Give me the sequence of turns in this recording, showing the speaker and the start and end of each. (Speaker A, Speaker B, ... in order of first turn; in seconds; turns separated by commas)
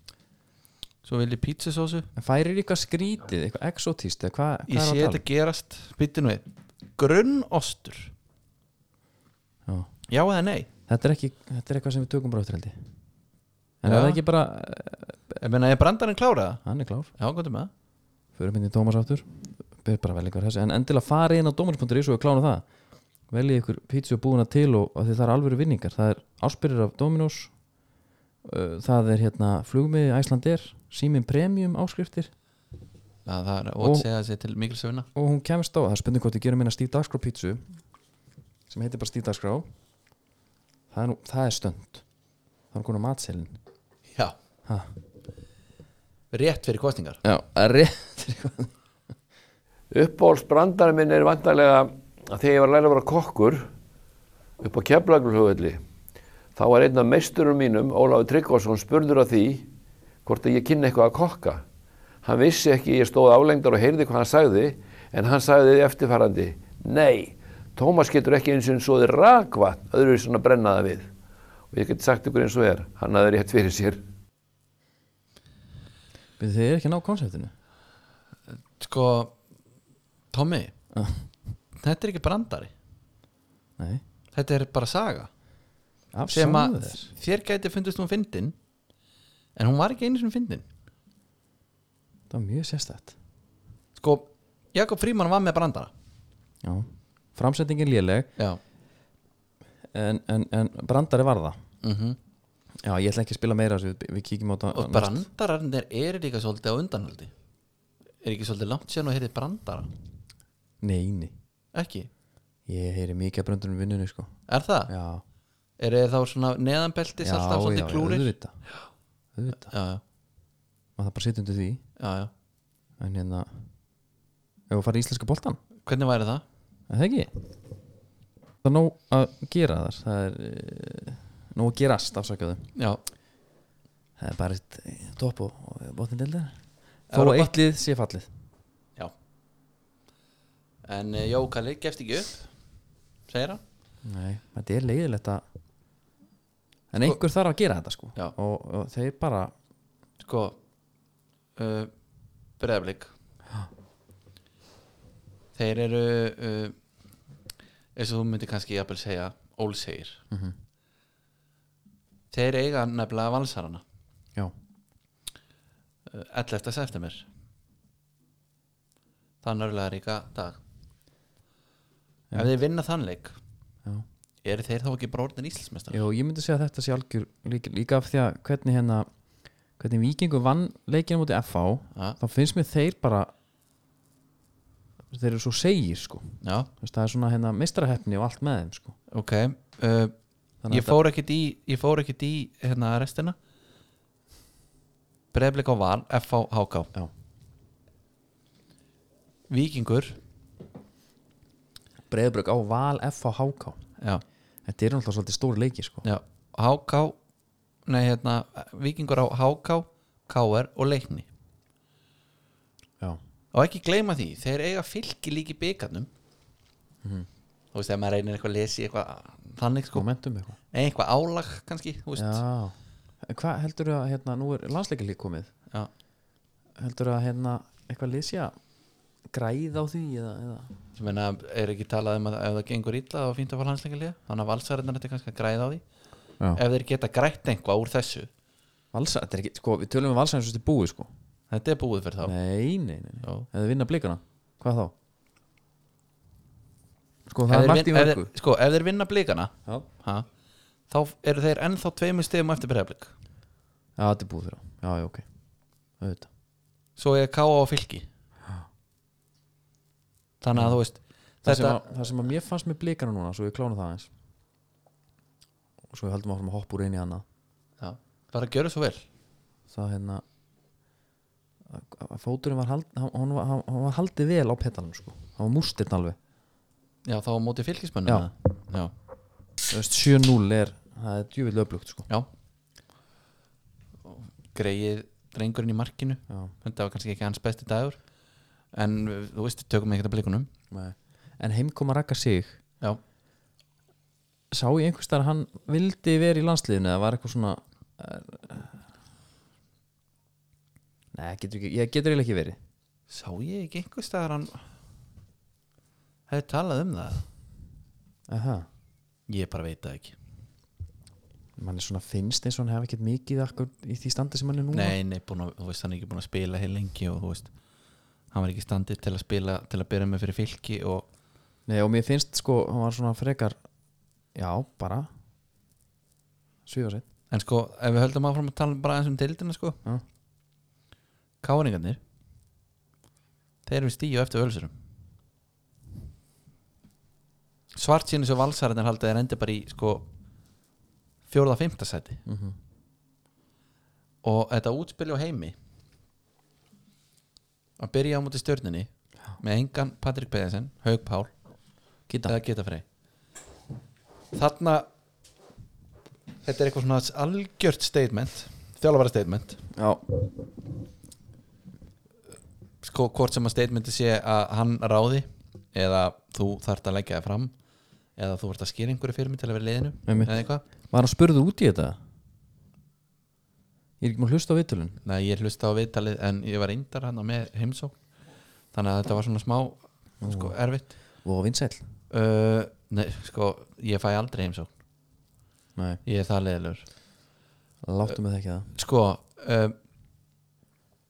Speaker A: 1.0-2.1, Speaker B: 2.2-5.2, Speaker A: 4.7-6.5, Speaker A: 7.0-8.1, Speaker A: 10.1-10.7, Speaker B: 10.9-12.8, Speaker B: 13.8-15.4, Speaker A: 13.8-14.2, Speaker A: 15.4-16.6, Speaker B: 16.6-17.1, Speaker A: 17.2-17.7, Speaker B: 18.4-22.6, Speaker B: 23.3-27.5, Speaker B: 28.4-32.3, Speaker A: 33.3-35.1, Speaker B: 33.8-34.1, Speaker B: 35.2-37.6, Speaker B: 38.7-39.7, Speaker B: 40.9-42.0, Speaker B: 42.7-43.6, Speaker B: 44.7-44.9, Speaker A: 46.3-47.2, Speaker B: 47.2-48.7, Speaker C: 49.9-53.7, Speaker C: 54.6-55.8, Speaker C: 56.5-59.7, Speaker C: 60.2-61.6, Speaker C: 62.2-71.1, Speaker C: 71.7-74.0, Speaker B: 76.4-77.5, Speaker A: 78.8-79.4, Speaker A: 80.3-80.7, Speaker B: 80.9-81.2, Speaker A: 81.8-82.7, Speaker A: 84.3-85.3, Speaker B: 86.1-87.1, Speaker A: 86.3-88.5, Speaker A: 89.6-90.7, Speaker B: 92.3-93.1, Speaker A: 94.0-95.9, Speaker B: 96.6-98.3, Speaker B: 99.9-101.6, Speaker A: 101.8-102.2, Speaker B: 102.8-105.3, Speaker A: 104.7-107.3, Speaker A: 108.2-109.9, Speaker B: 110.8-111.3, Speaker A: 111.7-112.1, Speaker B: 112.7-114.3, Speaker A: 114.5-114.9, Speaker B: 114.9-115.2, Speaker A: 115.8-118.3, Speaker B: 117.2-118.5, Speaker B: 119.3-119.7, Speaker A: 119.5-120.0, Speaker B: 121.0-121.8, Speaker A: 122.0-122.3, Speaker B: 123.0-123.5, Speaker B: 124.7-125.6, Speaker A: 125.9-126.4, Speaker B: 126.9-127.3, Speaker B: 128.6-132.7, Speaker A: 132.8-133.0, Speaker B: 134.2-136.6, Speaker A: 137.1-137.5, Speaker B: 137.1-138.3, Speaker A: 140.8-142.5, Speaker A: 143.3-143.6, Speaker B: 144.0-145.4, Speaker B: 146.9-149.5, Speaker A: 150.2-150.6, Speaker A: 151.6-151.9, Speaker A: 152.6-153.1, Speaker A: 155.6-156.8, Speaker A: 158.0-160.2, Speaker A: 162.3-163.8, Speaker A: 166.1-167.3, Speaker A: 169.4-170.6, Speaker A: 172.3-173.4, Speaker A: 174.4-176.0, Speaker B: 175.9-179.1, Speaker B: 179.8-183.3, Speaker B: 185.1-189.0, Speaker A: 186.4-186.7, Speaker A: 189.1-190.1, Speaker B: 190.6-191.0, Speaker A: 190.7-193.4, Speaker A: 195.3-196.9, Speaker A: 199.5-200.2, Speaker B: 202.1-203.8, Speaker B: 204.7-206.1, Speaker A: 206.1-207.2, Speaker A: 207.9-211.3, Speaker A: 213.5-216.1, Speaker B: 217.0-217.3, Speaker A: 217.7-220.1, Speaker B: 219.9-220.6, Speaker A: 220.7-222.4, Speaker B: 222.2-225.5, Speaker B: 226.8-228.5, Speaker B: 229.3-230.7, Speaker A: 231.0-235.8, Speaker A: 236.5-238.3, Speaker B: 238.9-241.1, Speaker A: 241.5-242.3, Speaker B: 242.2-244.9, Speaker B: 247.3-248.3, Speaker A: 247.5-250.3, Speaker A: 250.9-253.1, Speaker B: 254.0-255.2, Speaker B: 256.0-256.3, Speaker A: 257.0-258.1, Speaker A: 260.4-261.8, Speaker B: 261.4-264.1, Speaker B: 265.9-267.2, Speaker A: 267.8-269.0, Speaker B: 269.7-270.2, Speaker B: 271.7-276.2, Speaker A: 277.1-278.9, Speaker B: 279.7-282.1, Speaker A: 284.1-288.0, Speaker A: 288.7-290.5, Speaker B: 290.7-292.6, Speaker B: 294.5-298.8, Speaker B: 301.1-302.6, Speaker A: 303.1-304.6, Speaker A: 306.3-307.2, Speaker B: 308.3-308.7, Speaker A: 309.3-310.2, Speaker B: 311.6-315.0, Speaker A: 314.7-317.5, Speaker A: 318.3-321.1, Speaker B: 321.7-323.6, Speaker B: 324.4-325.1, Speaker B: 326.7-327.0, Speaker A: 327.3-329.8, Speaker A: 331.4-332.0, Speaker A: 333.7-334.7, Speaker A: 337.8-340.1, Speaker A: 341.3-342.2, Speaker B: 342.3-342.6, Speaker A: 344.2-345.6, Speaker A: 347.8-351.3, Speaker B: 352.1-352.3, Speaker A: 352.3-352.9, Speaker A: 354.3-354.9, Speaker A: 356.4-359.6, Speaker B: 359.8-360.1, Speaker A: 362.8-367.5, Speaker A: 368.2-370.6, Speaker B: 370.1-370.3, Speaker B: 370.9-372.0, Speaker B: 374.0-375.0, Speaker A: 375.1-378.0, Speaker A: 378.7-380.9, Speaker B: 380.2-380.6, Speaker B: 381.2-381.8, Speaker A: 382.1-384.7, Speaker B: 385.8-386.0, Speaker A: 386.1-386.9, Speaker B: 387.8-388.7, Speaker A: 388.7-389.8